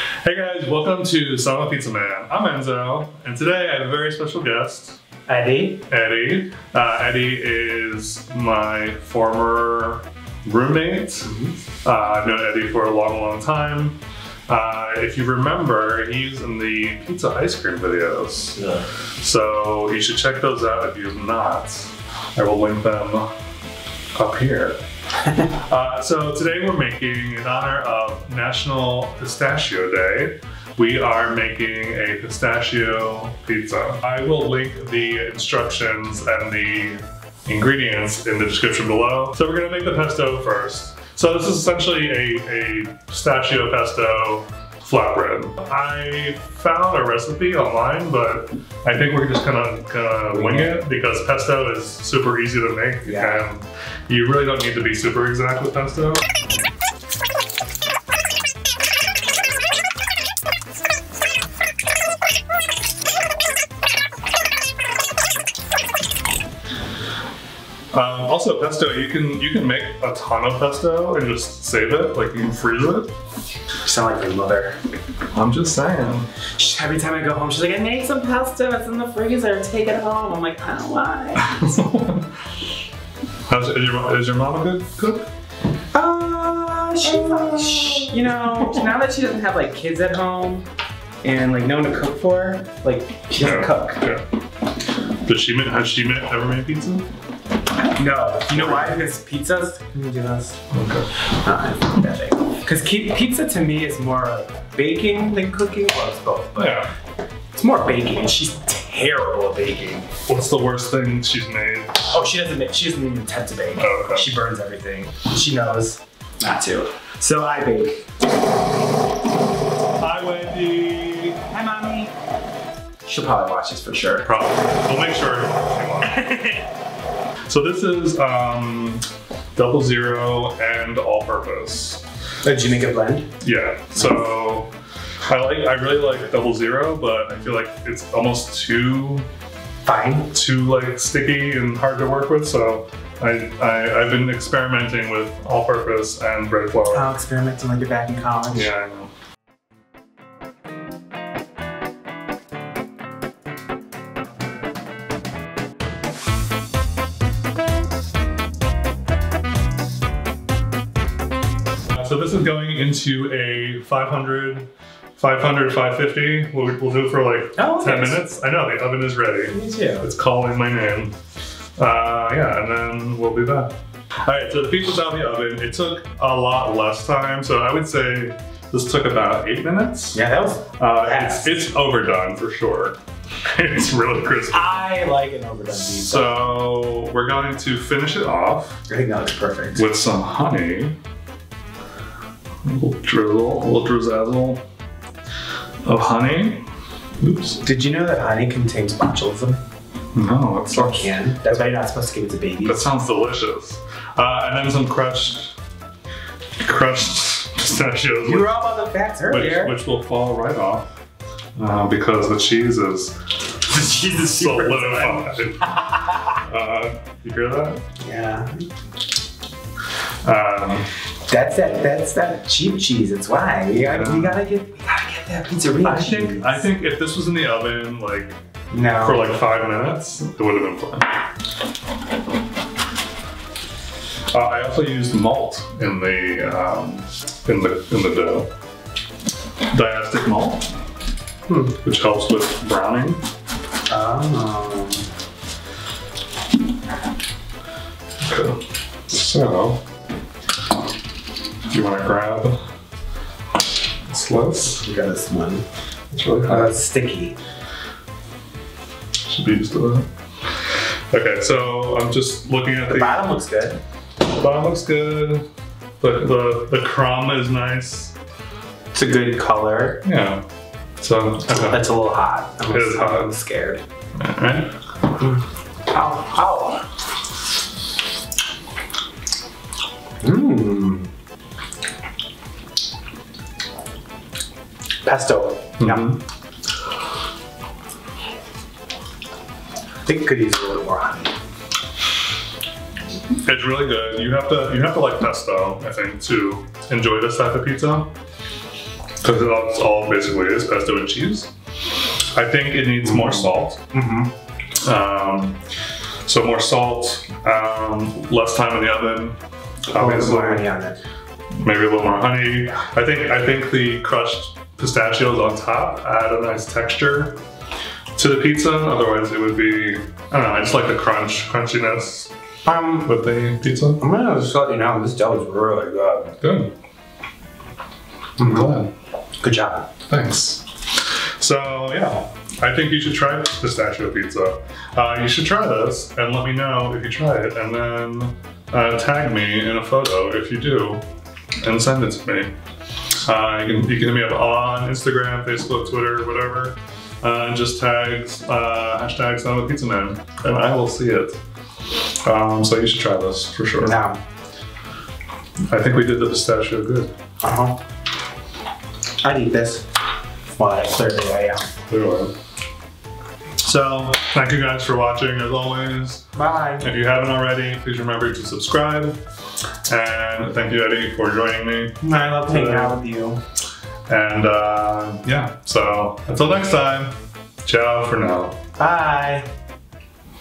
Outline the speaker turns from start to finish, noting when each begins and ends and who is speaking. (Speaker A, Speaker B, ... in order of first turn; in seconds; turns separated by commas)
Speaker A: 0.2-5.0, Speaker B: 5.3-5.9, Speaker A: 5.9-11.3, Speaker B: 11.2-11.6, Speaker A: 11.8-23.3, Speaker A: 24.1-24.8, Speaker A: 25.4-56.2, Speaker B: 50.3-50.7, Speaker B: 53.0-53.5, Speaker A: 67.9-73.1, Speaker B: 73.8-74.8, Speaker A: 75.3-76.3, Speaker B: 76.5-81.6, Speaker A: 81.4-82.3, Speaker A: 83.5-85.3, Speaker B: 85.9-90.7, Speaker A: 87.0-88.2, Speaker B: 91.2-94.0, Speaker A: 93.4-94.3, Speaker A: 95.2-97.1, Speaker B: 97.8-100.6, Speaker A: 98.5-99.0, Speaker A: 100.7-101.1, Speaker B: 101.3-106.8, Speaker A: 106.6-106.9, Speaker B: 107.5-110.1, Speaker A: 110.3-112.1, Speaker B: 112.0-118.1, Speaker A: 113.8-114.3, Speaker A: 120.0-121.4, Speaker B: 121.5-122.1, Speaker B: 123.0-124.3, Speaker A: 124.2-126.5, Speaker B: 126.2-126.5, Speaker A: 127.5-132.1, Speaker B: 132.4-133.3, Speaker A: 133.4-134.7, Speaker A: 135.3-139.3, Speaker B: 139.8-140.3, Speaker A: 140.3-147.2, Speaker B: 146.9-148.7, Speaker A: 148.5-149.1, Speaker A: 161.9-171.2, Speaker B: 167.6-168.3, Speaker B: 169.5-170.1, Speaker A: 171.8-180.2, Speaker B: 180.1-181.6, Speaker A: 180.8-184.8, Speaker B: 184.5-186.4, Speaker A: 185.7-188.8, Speaker B: 188.9-189.8, Speaker A: 189.7-191.0, Speaker A: 192.6-194.7, Speaker A: 195.8-196.7, Speaker A: 197.2-197.6, Speaker B: 197.6-199.6, Speaker A: 200.1-201.2, Speaker B: 200.7-202.9, Speaker A: 202.6-205.6, Speaker A: 206.6-208.6, Speaker B: 208.2-209.8, Speaker A: 209.3-210.9, Speaker A: 211.6-213.2, Speaker B: 213.7-216.2, Speaker A: 214.1-215.7, Speaker A: 216.4-217.8, Speaker B: 218.0-218.7, Speaker A: 220.2-220.9, Speaker B: 221.3-226.7, Speaker A: 223.8-224.4, Speaker A: 225.8-228.4, Speaker B: 228.7-229.4, Speaker A: 229.0-231.2, Speaker A: 234.3-238.5, Speaker A: 239.7-240.7, Speaker B: 241.5-241.8, Speaker A: 241.8-243.2, Speaker B: 243.9-245.1, Speaker A: 248.2-249.8, Speaker A: 251.7-252.6, Speaker A: 254.1-254.8, Speaker B: 254.8-255.7, Speaker A: 256.1-256.7, Speaker B: 256.4-257.4, Speaker A: 259.2-263.3, Speaker B: 262.9-263.8, Speaker A: 264.3-265.5, Speaker A: 266.0-268.2, Speaker B: 268.9-270.0, Speaker A: 270.0-270.4, Speaker A: 271.0-271.9, Speaker B: 271.6-273.8, Speaker A: 272.6-273.3, Speaker A: 274.2-274.7, Speaker B: 275.2-276.9, Speaker B: 280.2-281.1, Speaker B: 285.1-286.2, Speaker A: 285.8-286.2, Speaker B: 290.1-291.3, Speaker A: 293.4-298.1, Speaker A: 299.2-301.5, Speaker A: 302.3-303.8, Speaker B: 303.0-304.3, Speaker A: 304.8-305.6, Speaker A: 306.3-310.7, Speaker B: 309.9-311.0, Speaker A: 311.6-317.4, Speaker A: 318.2-322.3, Speaker B: 322.7-323.1, Speaker A: 323.0-324.0, Speaker B: 324.0-326.4, Speaker A: 326.4-326.7, Speaker B: 328.4-328.7, Speaker A: 328.4-328.9, Speaker B: 329.4-329.9, Speaker A: 330.1-341.1, Speaker A: 341.6-342.5, Speaker A: 343.2-351.4, Speaker A: 351.9-354.0, Speaker B: 353.8-354.2, Speaker A: 355.7-357.1, Speaker B: 357.4-357.8, Speaker B: 359.2-359.9, Speaker B: 360.5-361.7, Speaker A: 361.9-362.3, Speaker A: 363.6-369.2, Speaker B: 366.4-366.9, Speaker A: 369.9-373.0, Speaker B: 372.0-373.4, Speaker A: 374.1-378.6, Speaker B: 378.8-379.5